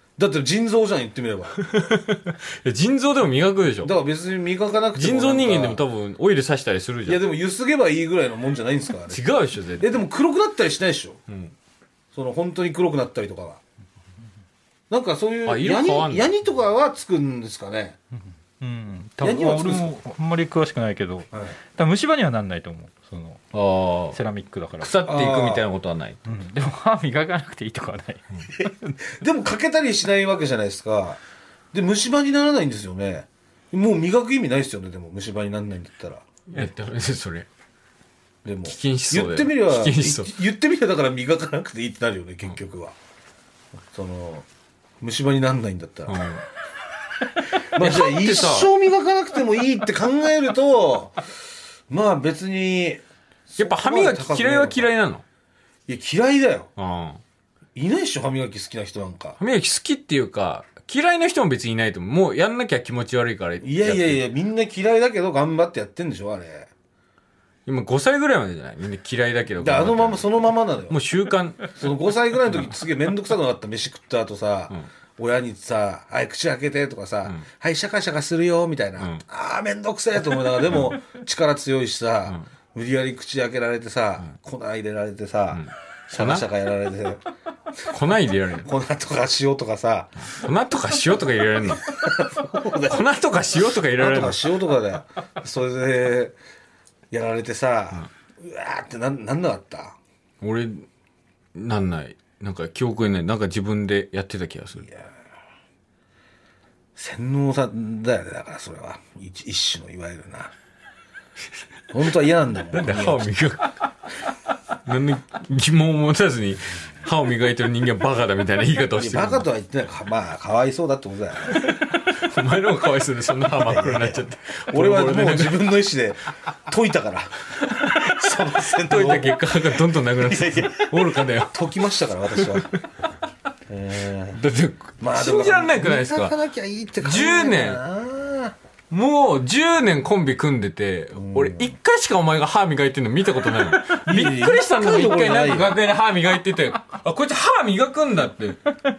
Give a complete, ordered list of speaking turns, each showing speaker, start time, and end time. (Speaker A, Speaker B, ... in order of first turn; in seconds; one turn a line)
Speaker A: 0.2-1.6
Speaker B: 1.6-3.9
Speaker A: 3.8-5.8
Speaker B: 4.9-7.2
Speaker A: 7.0-11.2
Speaker B: 9.1-9.9
Speaker B: 11.3-11.5
Speaker A: 12.1-13.6
Speaker A: 14.9-18.0
Speaker B: 15.4-16.3
Speaker C: 18.6-23.4
Speaker A: 19.2-20.0
Speaker A: 21.3-21.6
Speaker B: 23.5-24.2
Speaker C: 24.1-25.0
Speaker B: 24.8-26.2
Speaker A: 25.0-25.6
Speaker C: 26.2-28.9
Speaker A: 28.5-31.2
Speaker A: 31.7-36.3
Speaker B: 36.5-37.5
Speaker A: 38.4-43.0
Speaker B: 38.7-40.3
Speaker A: 43.9-44.5
Speaker A: 45.0-46.2
Speaker B: 46.1-46.4
Speaker B: 47.6-48.7
Speaker A: 47.7-51.2
Speaker A: 51.9-54.9
Speaker B: 53.6-55.2
Speaker A: 55.9-56.7
Speaker B: 56.8-57.2
Speaker A: 57.7-59.4
Speaker B: 59.4-64.2
Speaker A: 63.6-66.7
Speaker B: 67.7-70.3
Speaker A: 69.6-71.0
Speaker B: 70.9-71.8
Speaker A: 71.7-87.2
Speaker B: 72.5-72.8
Speaker B: 85.5-86.5
Speaker B: 87.9-88.7
Speaker A: 88.6-90.2
Speaker B: 90.3-92.1
Speaker A: 91.8-93.1
Speaker B: 92.9-94.5
Speaker A: 93.8-96.3
Speaker A: 97.1-100.0
Speaker B: 100.4-100.9
Speaker B: 101.5-104.9
Speaker A: 107.0-110.5
Speaker A: 111.9-113.3
Speaker B: 112.7-113.8
Speaker B: 114.8-119.5
Speaker A: 119.0-121.7
Speaker B: 121.5-125.7
Speaker A: 123.5-132.7
Speaker B: 127.6-131.6
Speaker B: 132.3-132.8
Speaker A: 133.7-134.4
Speaker B: 134.3-136.3
Speaker A: 135.0-138.6
Speaker B: 137.0-137.8
Speaker B: 138.9-148.7
Speaker A: 141.2-141.7
Speaker A: 143.7-145.8